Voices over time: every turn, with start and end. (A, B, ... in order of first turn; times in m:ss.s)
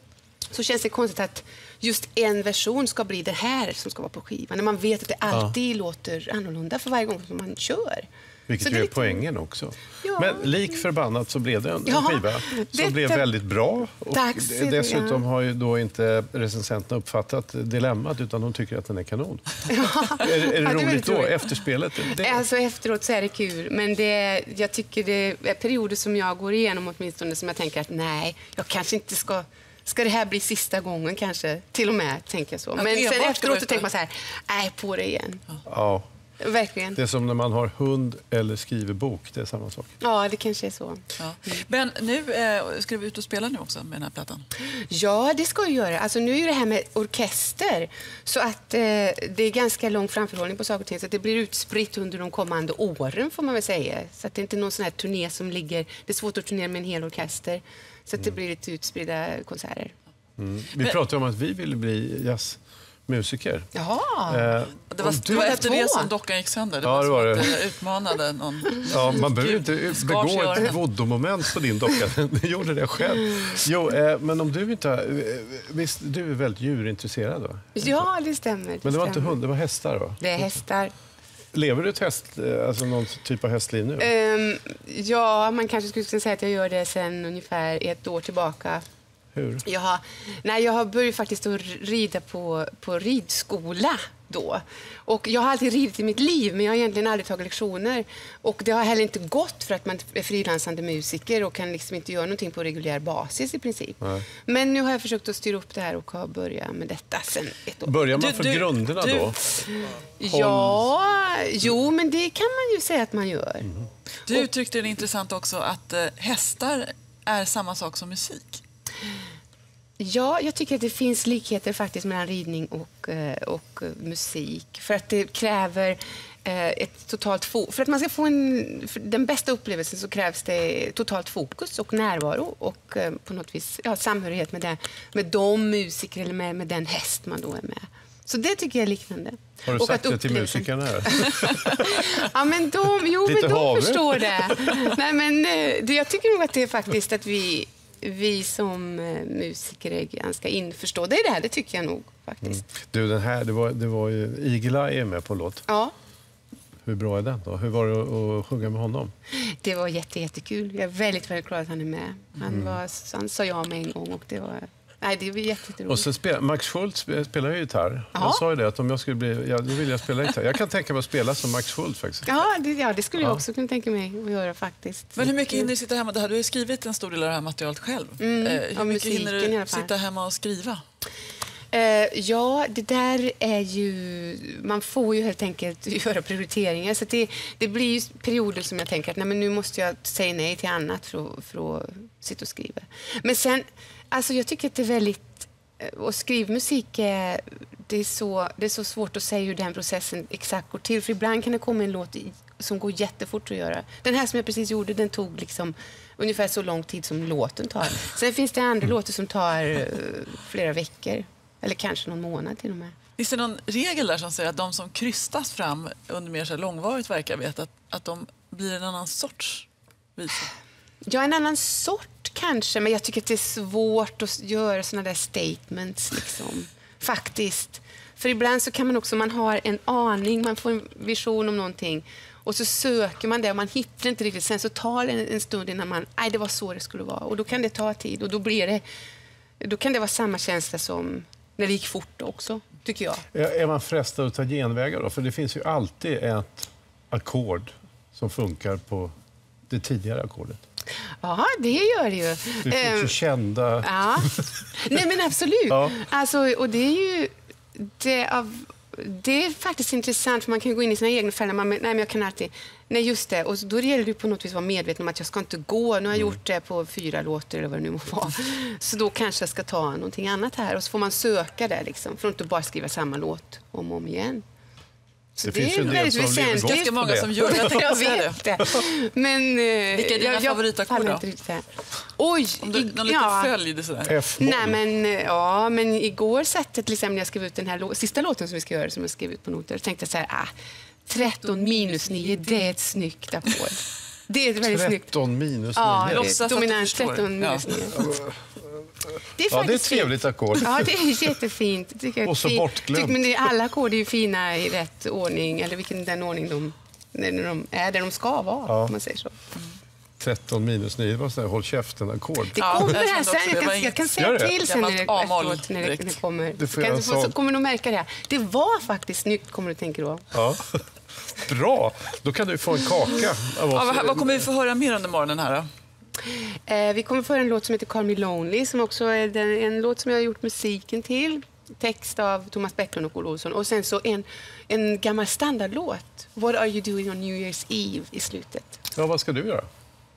0:00.5-0:08.0 A
0:08.5-0:22.4 B
0:08.6-0:09.2 A
0:10.0-0:10.5 A
0:11.8-0:13.2 A
0:14.1-0:15.2 A
0:19.7-0:21.5 A
0:22.1-0:35.4 A
0:32.8-0:33.9 C
0:35.6-0:36.0 B
0:36.4-0:37.0 A
0:36.9-0:39.9 B
0:40.0-0:41.5 A
0:41.2-0:44.5 C
0:44.7-0:59.9 A
1:00.4-1:03.7 B
1:03.7-1:04.6 A
1:04.3-1:05.6 B
1:04.9-1:10.8 C
1:05.2-1:06.1 A
1:06.8-1:07.5 B
1:08.9-1:18.0 B
1:17.7-1:19.4 A
1:18.8-1:20.4 B
1:20.2-1:20.9 A
1:21.5-1:24.1 B
1:24.0-1:28.8 A
1:29.3-1:29.6 B
1:29.6-1:48.1 A
1:47.8-1:49.4 B
1:48.1-1:49.3 C
1:49.6-1:53.7 A
1:50.2-1:50.8 B
1:54.3-1:58.6 C
2:00.0-2:32.7 A
2:19.7-2:22.3 B
2:23.2-2:25.0 B
2:32.4-2:35.6 B
2:35.7-2:35.9 A
2:36.8-2:39.1 B
2:39.3-2:46.1 A
2:42.5-2:42.8 B
2:45.8-2:52.4 B
2:48.1-2:48.4 A
2:52.2-2:55.7 A
2:55.2-3:00.8 C
2:58.2-2:59.9 A
3:01.7-3:33.0 A
3:33.2-3:40.5 C
3:41.1-3:58.8 A
3:59.6-4:03.2 A
4:03.3-4:09.1 B
4:09.7-4:10.6 B
4:11.2-4:13.2 A
4:12.6-4:14.6 B
4:13.8-4:34.4 A
4:15.7-4:16.0 B
4:35.4-4:43.5 A
4:35.4-4:37.6 B
4:36.6-4:38.4 C
4:39.9-4:41.2 C
4:42.6-4:44.2 C
4:44.0-4:44.8 B
4:44.4-4:50.5 A
4:51.0-4:55.1 A
4:54.6-4:56.4 B
4:55.7-4:58.1 A
4:56.0-4:57.7 C
4:58.0-4:58.3 B
4:59.4-5:09.4 A
4:59.5-5:01.1 B
5:02.2-5:03.5 B
5:08.6-5:08.9 B
5:10.2-5:13.0 B
5:12.5-5:20.3 A
5:12.6-5:16.2 C
5:14.2-5:14.6 B
5:16.6-5:17.3 B
5:20.3-5:24.5 B
5:23.7-5:25.7 C
5:26.2-5:38.8 A
5:38.9-5:39.6 B